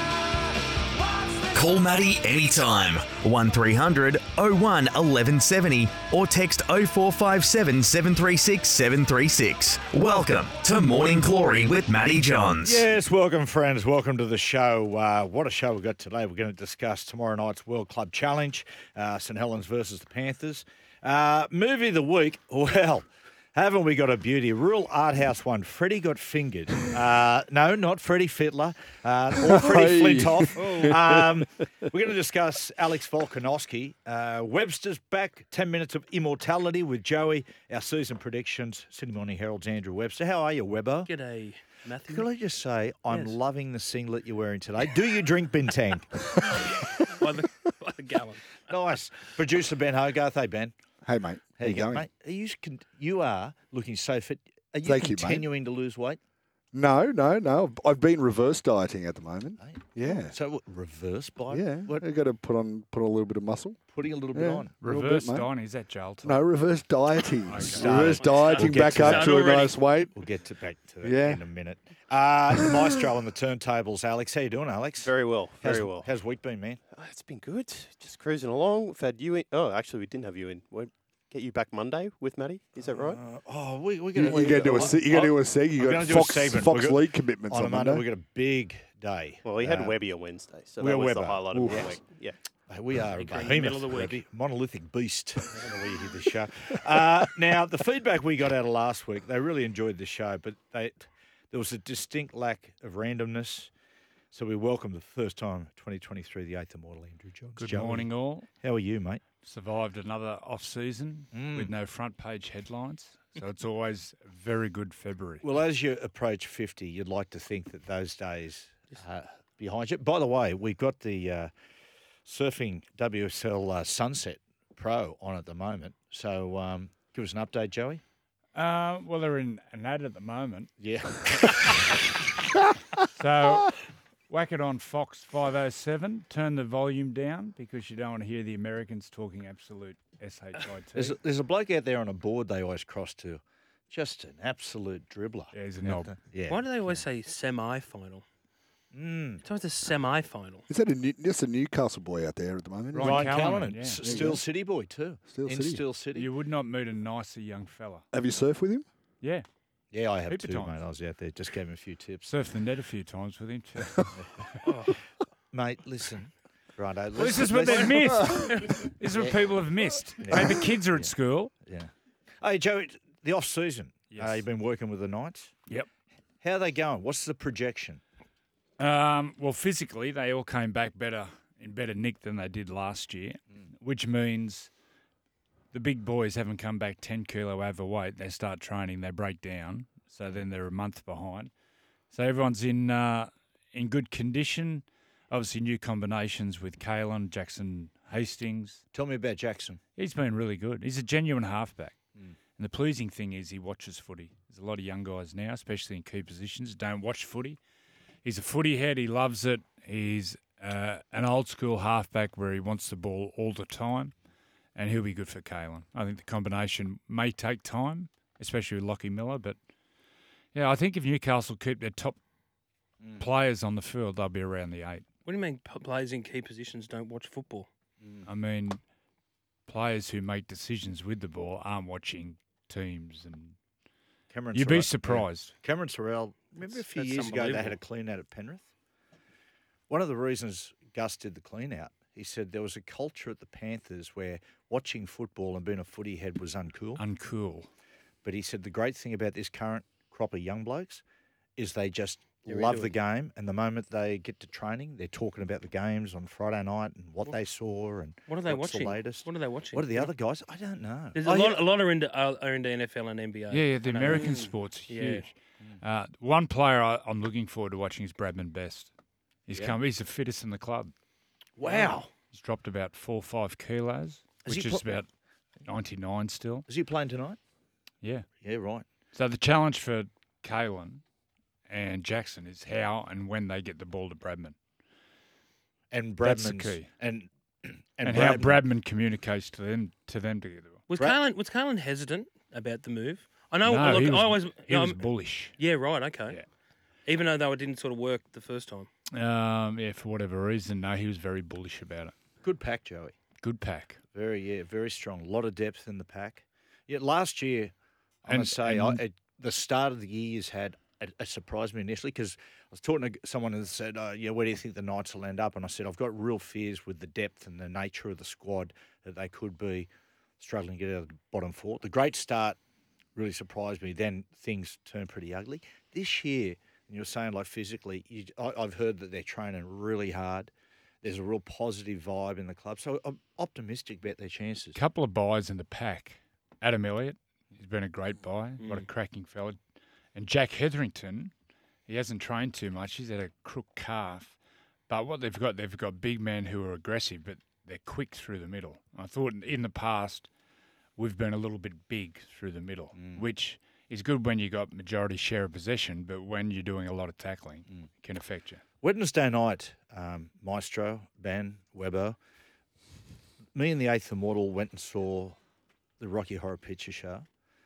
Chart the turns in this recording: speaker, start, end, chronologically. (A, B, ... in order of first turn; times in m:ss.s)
0:01.5-0:12.8 A
0:12.5-0:41.1 B
0:29.4-0:31.3 C
0:41.0-0:42.3 D
0:42.1-0:46.3 B
0:43.1-0:43.4 D
0:46.4-0:48.6 D
0:48.7-0:50.7 B
0:51.0-0:52.0 C
0:51.6-0:56.2 B
0:54.8-0:55.5 C
0:56.7-1:00.4 C
0:59.6-1:02.0 B
1:01.5-1:03.8 C
1:03.9-1:04.7 B
1:04.3-1:05.5 C
1:04.8-1:06.4 E
1:06.2-1:10.1 C
1:07.4-1:09.3 E
1:07.6-1:09.1 B
1:07.8-1:09.8 D
1:10.1-1:16.8 B
1:11.0-1:11.4 C
1:15.0-1:16.1 F
1:16.9-1:23.2 F
1:22.9-1:30.0 B
1:24.1-1:28.0 C
1:24.2-1:25.0 F
1:29.4-1:32.4 F
1:30.8-1:32.0 B
1:31.5-1:31.9 C
1:32.7-1:43.7 B
1:33.1-1:34.2 D
1:44.3-1:49.2 B
1:47.6-1:48.5 E
1:49.4-1:55.4 E
1:51.3-1:51.7 B
1:55.4-2:01.5 B
2:02.2-2:08.0 B
2:08.5-2:10.7 E
2:10.8-2:12.0 B
2:13.2-2:13.8 E
2:14.3-2:21.1 E
2:20.9-2:27.0 B
2:25.5-2:26.1 E
2:26.5-2:28.2 D
2:28.9-2:29.4 B
2:29.4-2:30.6 D
2:30.7-2:34.4 C
2:32.9-2:34.0 E
2:33.0-2:36.3 B
2:35.2-2:35.8 C
2:36.1-2:38.0 E
2:38.1-2:38.8 C
2:39.9-2:42.3 B
2:40.3-2:40.8 E
2:42.2-2:44.1 E
2:44.6-2:45.0 D
2:45.5-2:48.4 B
2:47.2-2:51.5 E
2:47.6-2:48.0 D
2:49.1-2:49.5 B
2:50.2-2:55.5 B
2:54.1-2:54.4 E
2:56.4-2:58.0 B
2:58.8-3:04.7 E
3:05.7-3:11.5 E
3:12.1-3:18.8 E
3:18.9-3:19.8 B
3:20.0-3:22.0 E
3:22.6-3:27.6 E
3:28.2-3:34.1 E
3:34.7-3:39.6 E
3:40.5-3:42.2 E
3:43.0-3:43.3 B
3:43.2-3:45.0 E
3:45.2-3:47.7 D
3:48.0-3:48.3 B
3:48.2-3:48.8 E
3:49.7-3:53.6 E
3:54.3-3:58.7 B
3:54.5-3:55.5 E
3:56.6-3:57.8 D
3:59.9-4:07.0 B
4:07.0-4:07.7 E
4:08.2-4:11.0 B
4:11.6-4:21.6 B
4:12.5-4:12.9 D
4:18.3-4:20.1 D
4:21.2-4:25.3 D
4:23.5-4:28.9 E
4:29.5-4:30.9 E
4:31.6-4:32.1 B
4:31.6-4:32.0 D
4:32.2-4:35.1 E
4:34.4-4:35.0 B
4:35.6-4:36.6 E
4:36.6-4:37.4 B
4:38.0-4:38.3 E
4:38.4-4:38.8 B
4:39.1-4:41.0 E
4:41.7-4:44.6 E
4:45.9-4:48.6 B
4:46.2-4:46.9 E
4:48.0-4:50.8 E
4:50.9-4:55.0 D
4:53.6-4:55.6 E
4:55.6-4:56.4 D
4:57.0-4:58.9 D
4:59.1-5:02.1 E
5:02.4-5:03.2 B
5:03.4-5:04.0 E
5:04.1-5:07.7 B
5:08.2-5:19.9 B
5:08.3-5:09.0 E
5:20.4-5:22.6 B
5:23.2-5:30.5 B
5:31.0-5:34.8 B
5:34.7-5:39.6 E
5:38.6-5:38.8 D
5:40.1-5:41.3 E
5:41.9-5:44.4 E
5:44.9-5:50.3 E
5:51.0-5:58.6 E
5:52.9-5:53.3 B
5:58.8-6:02.2 B
6:03.5-6:05.4 B
6:06.0-6:07.2 B